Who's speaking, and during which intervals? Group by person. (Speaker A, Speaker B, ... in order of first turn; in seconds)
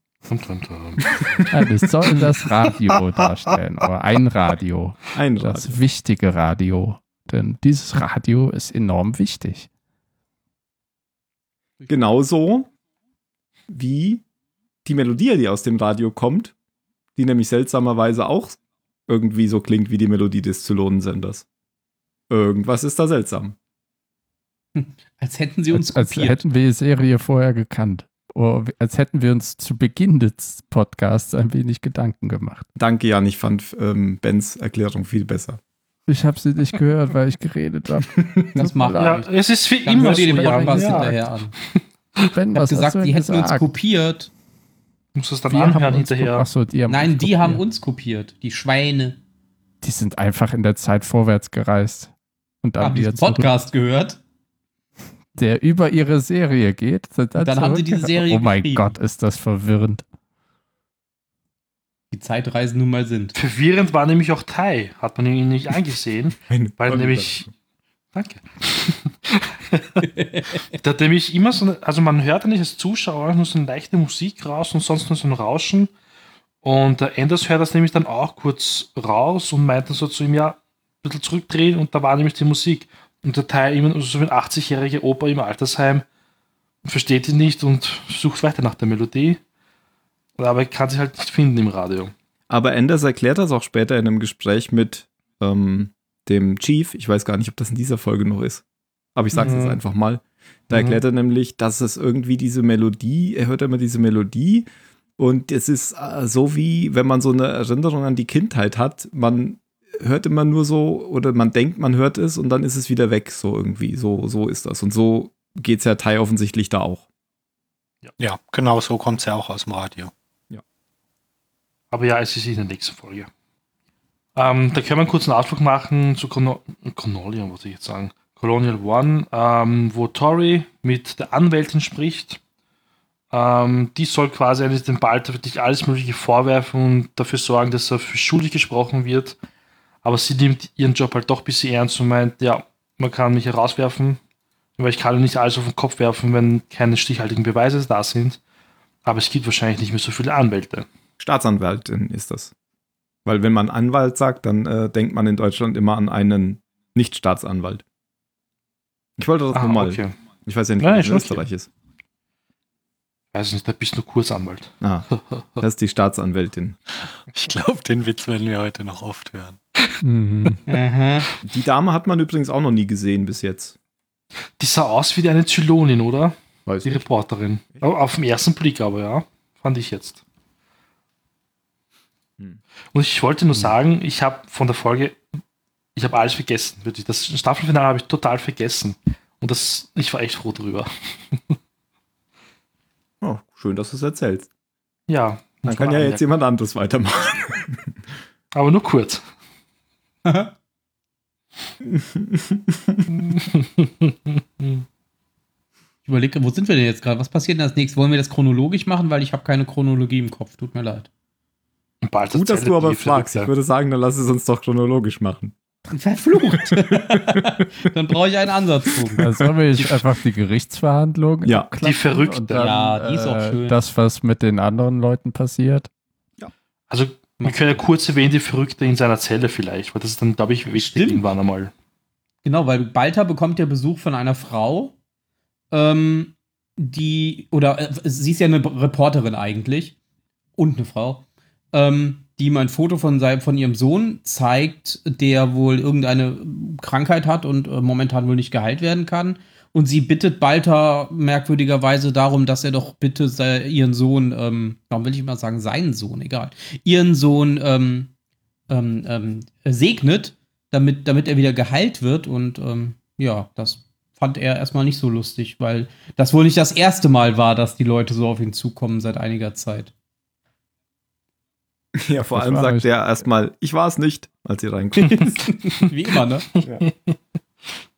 Speaker A: 0.3-1.5, 39.0-41.2, 45.1-46.5, 63.4-67.5, 68.1-70.1, 70.7-75.9, 76.6-86.0, 86.8-89.4, 90.4-92.1, 99.3-99.8, 100.7-101.0, 121.9-123.3, 124.4-132.4, 133.3-139.4, 140.0-144.2, 144.8-148.4, 149.1-150.9, 159.5-160.2, 160.8-161.5, 163.3-164.7, 174.6-180.2, 182.9-185.2, 186.0-191.6, 195.1-196.3, 198.5-199.2, 203.2-204.8, 212.0-213.5, 221.8-222.7, 226.9-231.7, 276.8-277.1
Speaker B: 1.5-9.7, 25.7-32.7, 36.1-39.2, 40.0-40.9, 42.3-43.7, 45.5-47.6, 49.8-52.1, 52.6-53.5, 55.3-60.0, 170.0-170.6, 219.2-225.9, 272.2-272.9
Speaker C: 5.2-5.8, 11.9-12.7, 13.7-14.2, 14.8-16.5, 17.2-21.5, 22.3-23.6, 32.8-35.6, 38.2-38.5, 40.8-41.0, 66.5-67.5, 92.5-98.6, 99.2-117.1, 151.2-152.5, 153.2-157.8, 159.2-161.7, 164.8-165.1, 165.6-166.8, 171.4-173.8, 176.7-177.1, 193.2-194.5, 195.7-197.9, 201.8-203.1, 212.3-215.6, 216.7-217.5, 272.0-275.4
Speaker D: 24.8-26.4, 38.6-39.3, 39.8-41.5, 42.5-44.3, 46.9-49.2, 52.8-54.2, 57.4-59.0, 62.1-63.4, 70.0-70.4, 170.7-171.3, 200.2-200.5, 206.1-211.1, 215.9-219.2, 222.5-223.8, 227.4-227.8, 230.8-231.2, 232.4-234.9, 235.7-240.0, 240.6-258.1, 258.7-269.9, 275.4-276.5
Speaker E: 118.2-120.1, 167.3-169.6